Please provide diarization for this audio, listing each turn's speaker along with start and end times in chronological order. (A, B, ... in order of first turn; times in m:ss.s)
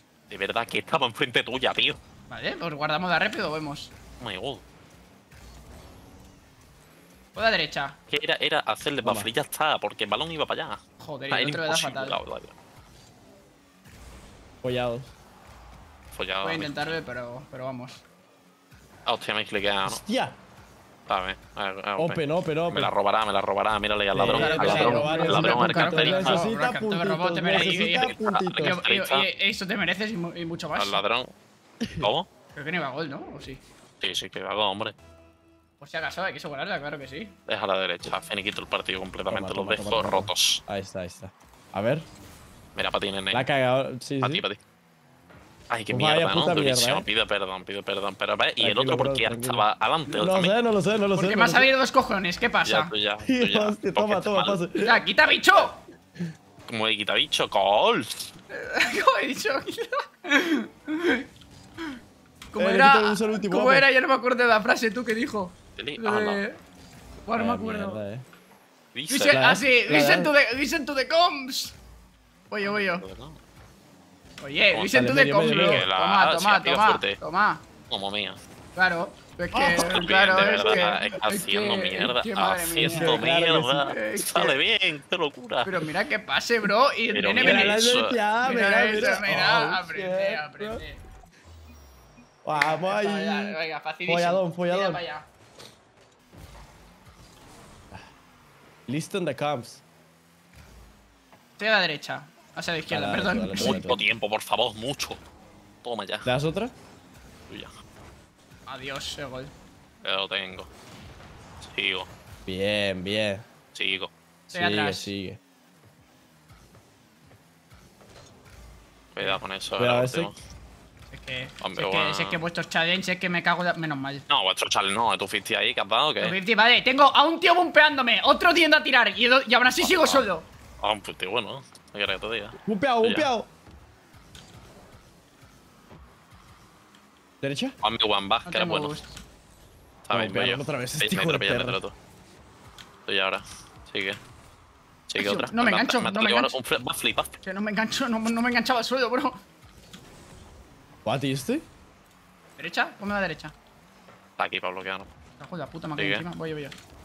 0:00.3-0:02.0 A
0:02.3-0:03.9 B
0:04.2-0:04.6 A
0:07.4-0:08.0 B
0:08.1-0:10.8 A
0:09.0-0:09.3 C
0:11.0-0:12.2 B
0:11.3-0:12.5 A
0:14.6-0:15.1 C
0:16.1-0:17.0 A
0:16.4-0:18.0 B
0:19.1-0:20.0 A
0:19.9-0:20.4 C
0:21.1-0:26.5 A
0:22.0-0:22.9 C
0:24.1-0:28.8 C
0:24.2-0:31.0 B
0:27.5-0:29.3 A
0:30.8-0:31.3 A
0:31.8-0:32.1 C
0:32.0-0:32.3 A
0:32.6-0:33.6 B
0:34.0-0:35.0 A
0:35.8-0:37.4 B
0:37.5-0:40.6 A
0:39.3-0:42.1 C
0:42.8-0:43.5 A
0:43.3-0:44.4 C
0:44.2-0:44.6 A
0:45.7-0:50.5 A
0:45.9-0:47.1 C
0:48.6-0:49.7 C
0:50.2-0:51.7 C
0:51.2-0:52.9 B
0:52.6-0:54.6 A
0:53.2-0:55.0 C
0:54.8-0:55.8 B
0:56.7-0:58.3 A
0:58.5-1:01.3 B
1:02.5-1:06.6 B
1:02.6-1:03.9 C
1:05.8-1:06.4 A
1:07.3-1:08.0 B
1:07.4-1:08.2 C
1:08.9-1:09.4 A
1:09.1-1:11.8 B
1:09.3-1:10.3 C
1:12.5-1:13.0 B
1:12.6-1:13.4 A
1:14.4-1:17.6 B
1:14.9-1:15.9 C
1:15.4-1:17.2 A
1:17.9-1:18.4 A
1:18.8-1:23.3 B
1:19.5-1:21.2 C
1:19.8-1:25.8 A
1:22.8-1:23.9 C
1:23.8-1:24.6 B
1:25.6-1:27.8 B
1:27.1-1:28.2 A
1:27.4-1:30.8 C
1:28.4-1:31.0 B
1:32.4-1:35.0 C
1:32.5-1:35.3 B
1:38.9-1:39.8 C
1:41.6-1:43.9 B
1:42.9-1:44.0 C
1:43.6-1:45.2 A
1:45.8-1:46.3 A
1:46.2-1:46.7 C
1:48.7-1:49.5 B
1:50.0-1:50.7 A
1:51.6-1:52.1 A
1:52.5-1:53.4 C
1:53.8-1:54.1 A
1:54.5-1:55.1 B
1:54.5-1:55.4 C
1:59.1-2:00.4 A
1:59.8-2:00.3 C
2:01.1-2:04.3 B
2:01.6-2:02.4 A
2:04.3-2:06.4 A
2:06.2-2:10.5 B
2:09.8-2:10.3 A
2:10.8-2:13.3 A
2:12.6-2:13.5 C
2:17.4-2:17.8 C
2:17.8-2:19.0 A
2:18.5-2:19.2 B
2:20.0-2:21.9 A
2:20.1-2:21.8 C
2:23.1-2:24.2 A
2:25.1-2:27.3 A
2:25.2-2:26.5 B
2:27.4-2:29.4 B
2:31.0-2:31.7 C
2:32.6-2:33.5 B
2:34.4-2:35.1 A
2:35.4-2:36.8 B
2:36.0-2:36.3 A